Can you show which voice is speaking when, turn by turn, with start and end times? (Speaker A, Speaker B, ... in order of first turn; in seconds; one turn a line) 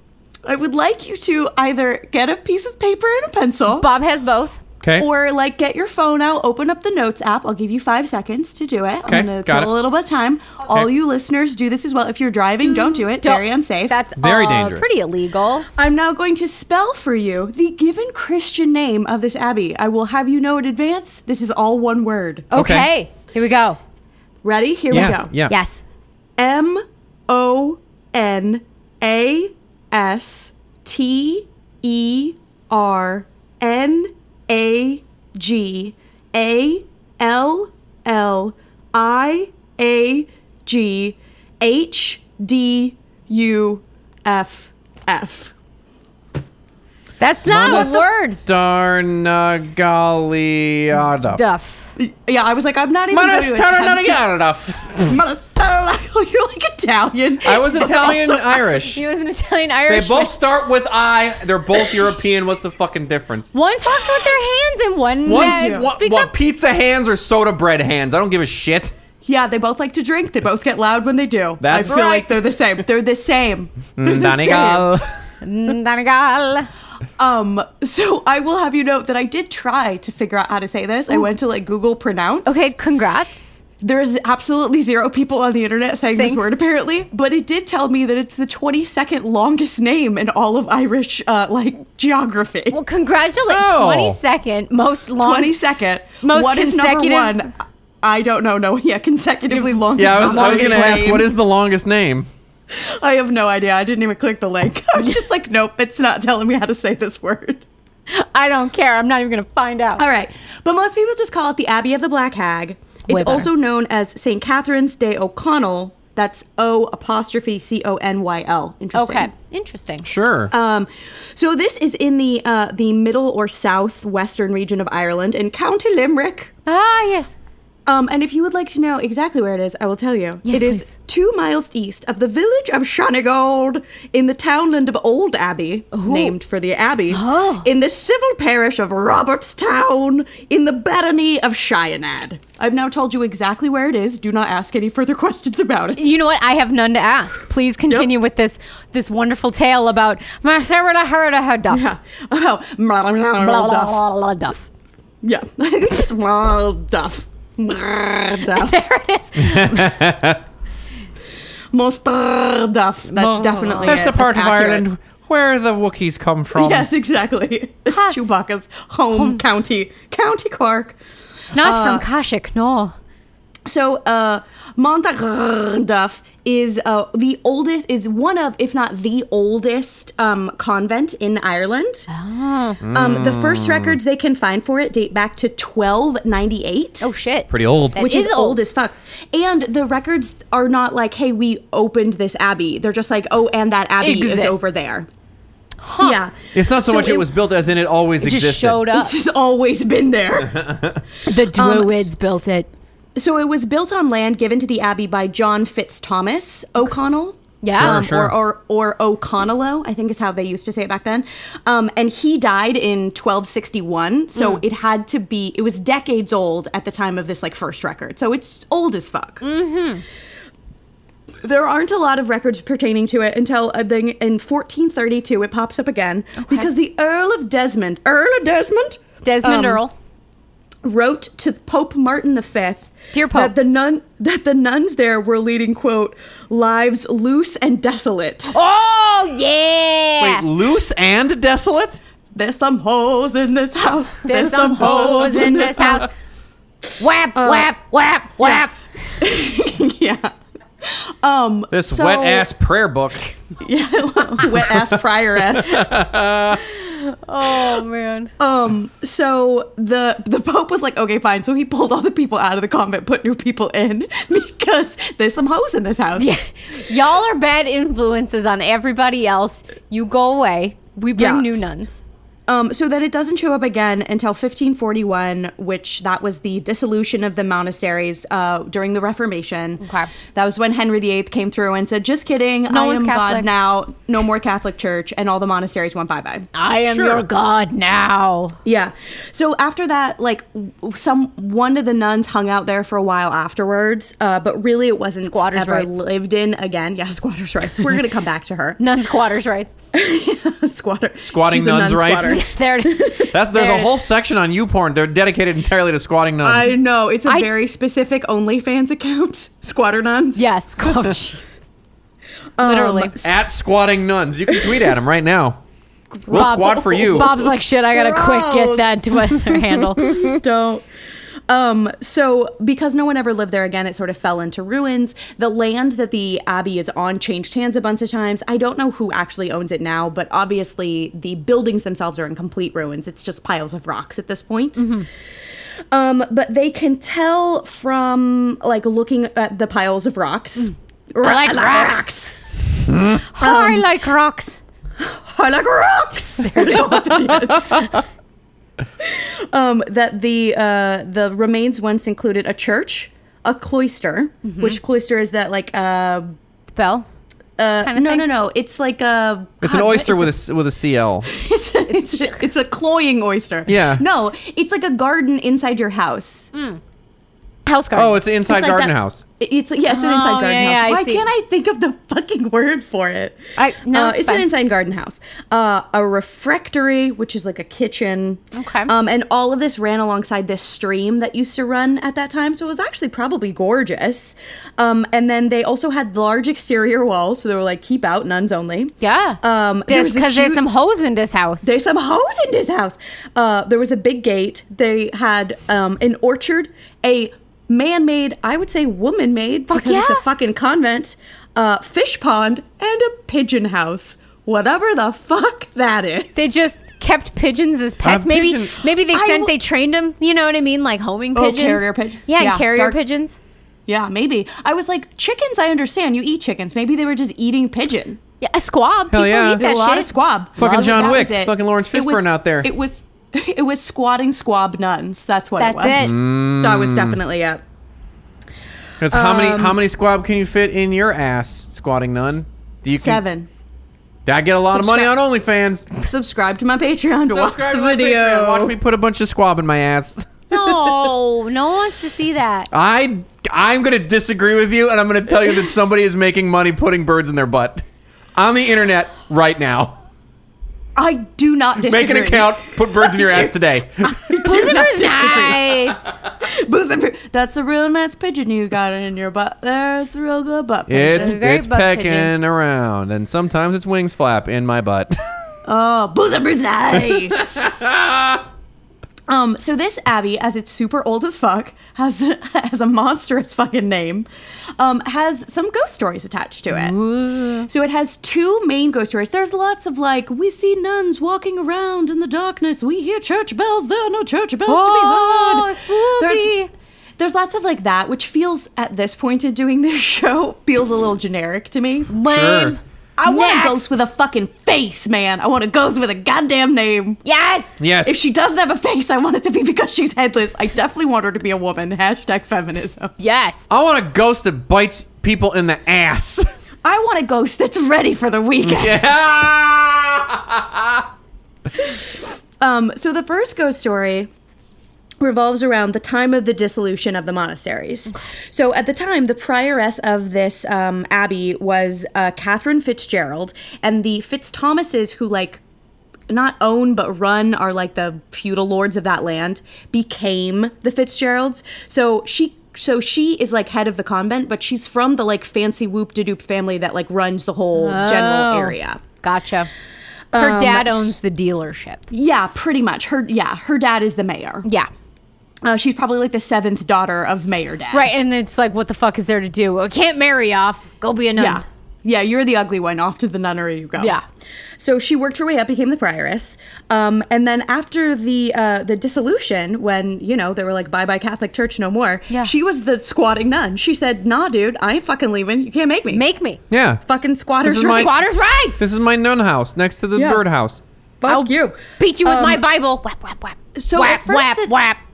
Speaker A: 0.5-3.9
Speaker B: 3.7-4.6
Speaker C: 4.8-5.1
Speaker A: 5.0-14.0
Speaker C: 9.1-9.7
Speaker B: 12.6-15.7
Speaker C: 14.2-14.9
Speaker A: 15.8-22.5
Speaker C: 22.5-22.9
Speaker B: 22.5-23.8
Speaker A: 24.4-25.4
Speaker C: 24.9-25.5
Speaker B: 25.0-25.8
Speaker A: 26.4-45.5
Speaker B: 47.2-48.4
Speaker C: 47.5-51.4
Speaker B: 51.3-51.8
Speaker A: 52.0-54.2
Speaker C: 53.1-55.1
Speaker A: 55.0-58.6
Speaker C: 57.4-59.0
Speaker B: 58.8-60.4
Speaker C: 59.9-63.5
Speaker B: 63.5-66.3
Speaker A: 65.3-65.9
Speaker C: 65.3-68.9
Speaker A: 69.2-74.9
Speaker C: 71.6-72.4
Speaker C: 74.0-75.1
Speaker B: 75.4-76.7
Speaker A: 77.2-82.7
Speaker B: 82.5-83.5
Speaker A: 83.8-92.8
Speaker B: 92.7-95.5
Speaker C: 93.5-94.2
Speaker A: 95.2-101.3
Speaker B: 96.2-97.3
Speaker B: 99.5-101.2
Speaker C: 100.0-102.3
Speaker A: 102.7-107.6
Speaker B: 108.1-110.0
Speaker A: 110.0-119.3
Speaker B: 113.1-113.5
Speaker B: 118.9-120.1
Speaker C: 120.0-120.5
Speaker A: 120.5-126.5
Speaker B: 126.7-127.4
Speaker A: 127.9-146.2
Speaker B: 130.5-130.9
Speaker B: 135.9-136.3
Speaker B: 137.1-137.7
Speaker B: 146.0-151.8
Speaker A: 151.7-154.0
Speaker B: 153.4-154.6
Speaker A: 155.2-158.9
Speaker B: 158.4-159.9
Speaker C: 159.4-160.4
Speaker A: 161.7-164.8
Speaker B: 163.1-164.1
Speaker C: 163.8-166.9
Speaker A: 166.6-171.0
Speaker B: 167.9-168.2
Speaker B: 169.1-169.4
Speaker B: 171.5-172.9
Speaker A: 171.6-172.1
Speaker A: 173.7-182.1
Speaker B: 182.1-182.8
Speaker C: 182.8-184.0
Speaker A: 182.9-187.1
Speaker B: 187.0-188.6
Speaker C: 187.5-188.0
Speaker A: 188.0-195.1
Speaker B: 194.0-194.6
Speaker B: 195.8-196.2
Speaker A: 196.0-197.3
Speaker C: 196.5-198.9
Speaker B: 198.2-199.2
Speaker A: 198.9-200.9
Speaker B: 201.2-202.7
Speaker A: 201.5-202.1
Speaker A: 203.2-219.4
Speaker B: 207.6-208.0
Speaker C: 207.8-208.3
Speaker B: 214.4-214.6
Speaker B: 219.4-220.0
Speaker A: 221.4-229.8
Speaker B: 226.4-226.7
Speaker B: 229.2-229.9
Speaker A: 230.8-238.6
Speaker B: 233.1-233.5
Speaker B: 238.5-240.5
Speaker C: 240.2-242.0
Speaker A: 242.3-246.1
Speaker B: 244.2-246.2
Speaker B: 247.0-248.8
Speaker A: 247.3-247.7
Speaker A: 249.2-252.5
Speaker C: 251.7-253.3
Speaker A: 253.6-256.0
Speaker C: 254.7-255.0
Speaker C: 255.5-256.6
Speaker B: 256.6-258.3
Speaker A: 258.4-266.3
Speaker B: 266.2-272.0
Speaker A: 271.2-271.7
Speaker A: 272.5-286.5
Speaker B: 279.8-280.1
Speaker B: 282.7-283.5
Speaker B: 286.5-288.6
Speaker C: 286.9-287.3
Speaker A: 288.6-298.8
Speaker B: 295.3-295.9
Speaker B: 298.8-299.7
Speaker A: 299.9-303.3
Speaker C: 301.2-302.4
Speaker B: 302.2-303.9
Speaker C: 303.3-306.7
Speaker A: 306.4-310.5
Speaker B: 310.4-311.5
Speaker A: 312.6-313.5
Speaker B: 312.6-313.1
Speaker C: 313.2-315.6
Speaker A: 314.6-314.9
Speaker A: 316.2-320.8
Speaker C: 316.3-317.3
Speaker B: 316.3-320.2
Speaker A: 321.5-335.0
Speaker B: 334.8-335.1
Speaker A: 335.9-342.4
Speaker B: 341.2-342.1
Speaker C: 342.9-343.2
Speaker B: 343.2-344.6
Speaker A: 343.4-343.9
Speaker A: 345.0-348.0
Speaker B: 346.4-347.0
Speaker A: 349.0-356.4
Speaker B: 354.4-354.8
Speaker B: 356.8-357.1
Speaker A: 357.6-360.4
Speaker B: 357.8-358.2
Speaker C: 359.6-361.3
Speaker A: 361.3-366.5
Speaker B: 361.9-362.4
Speaker C: 363.7-364.1
Speaker B: 366.5-366.8
Speaker B: 367.7-368.2
Speaker C: 367.9-369.2
Speaker A: 368.5-390.6
Speaker B: 369.9-371.2
Speaker B: 373.6-374.5
Speaker B: 378.5-378.9
Speaker B: 389.0-391.6
Speaker A: 391.6-406.4
Speaker B: 399.7-400.2
Speaker B: 406.4-413.4
Speaker C: 408.0-408.8
Speaker A: 409.1-409.5
Speaker A: 411.4-413.0
Speaker A: 413.9-418.2
Speaker B: 418.4-421.2
Speaker C: 419.1-419.6
Speaker A: 419.5-427.6
Speaker C: 420.6-422.7
Speaker B: 425.6-426.1
Speaker C: 425.9-427.2
Speaker C: 429.0-433.2
Speaker A: 429.1-429.8
Speaker A: 432.9-433.5
Speaker C: 434.3-435.9
Speaker A: 434.7-435.1
Speaker A: 435.9-438.8
Speaker C: 437.3-440.3
Speaker B: 440.5-442.7
Speaker C: 442.7-447.8
Speaker C: 448.4-450.0
Speaker A: 451.0-461.4
Speaker C: 451.8-454.2
Speaker B: 454.4-456.0
Speaker C: 460.9-465.2
Speaker B: 461.0-462.3
Speaker A: 465.6-467.9
Speaker C: 467.1-468.4
Speaker A: 469.3-474.3
Speaker A: 474.8-476.9
Speaker B: 476.7-477.7
Speaker A: 477.7-486.5
Speaker B: 484.7-486.7
Speaker A: 487.2-492.1
Speaker B: 492.1-493.8
Speaker C: 492.3-492.8
Speaker A: 493.2-497.2
Speaker B: 497.2-497.7
Speaker C: 497.8-498.2
Speaker A: 498.1-503.1
Speaker B: 503.2-503.7
Speaker C: 503.7-506.5
Speaker A: 506.8-509.1
Speaker C: 508.6-511.1
Speaker A: 511.8-514.3
Speaker A: 515.2-525.6
Speaker A: 526.3-539.0
Speaker B: 537.8-539.7
Speaker A: 540.3-541.2
Speaker B: 540.4-542.0
Speaker A: 542.1-544.7
Speaker B: 544.6-544.9
Speaker A: 545.6-548.1
Speaker B: 547.9-551.6
Speaker A: 551.4-554.2
Speaker B: 554.0-554.2
Speaker A: 554.8-566.2
Speaker B: 566.1-566.6
Speaker C: 566.7-567.0
Speaker A: 567.0-568.2
Speaker C: 567.6-568.2
Speaker B: 567.9-568.8
Speaker C: 568.8-570.8
Speaker A: 570.1-570.4
Speaker A: 571.2-572.6
Speaker B: 571.3-575.0
Speaker A: 573.8-574.8